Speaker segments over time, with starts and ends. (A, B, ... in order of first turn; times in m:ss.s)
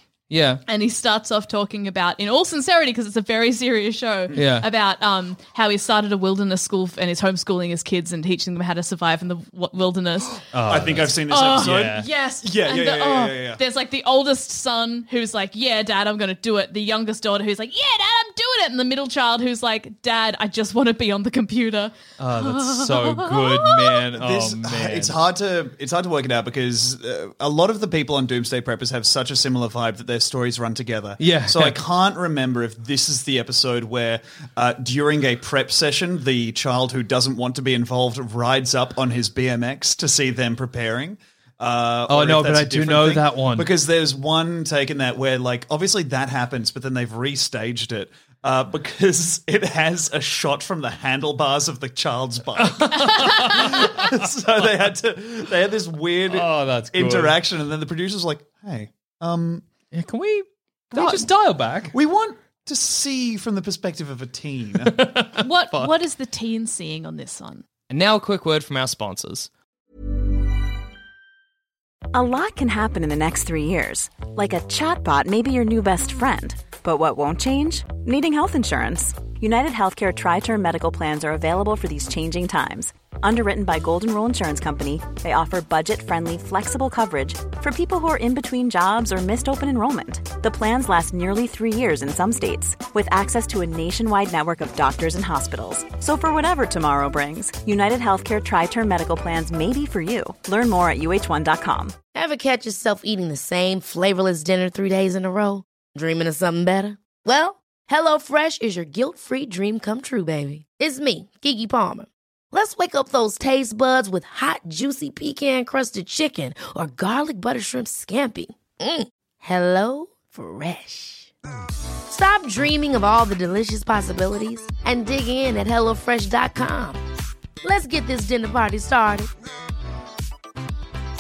0:00.3-0:00.6 A
0:00.7-0:24.0 B
0:04.3-0:04.7 A
0:10.5-0:12.1 A
0:10.7-0:13.6 C
0:22.2-0:25.1 A
0:24.1-0:59.7 C
0:31.2-0:31.8 A
0:42.1-0:43.7 A
0:52.6-0:54.0 A
0:53.0-0:53.6 B
0:56.3-0:57.4 A
0:59.9-1:01.9 A
1:00.9-1:01.3 C
1:01.9-1:04.9 C
1:04.8-1:05.9 A
1:05.4-1:07.6 B
1:07.9-1:09.5 A
1:12.1-1:41.9 D
1:42.1-2:01.3 E
2:02.1-2:07.0 E
2:07.6-2:09.3 E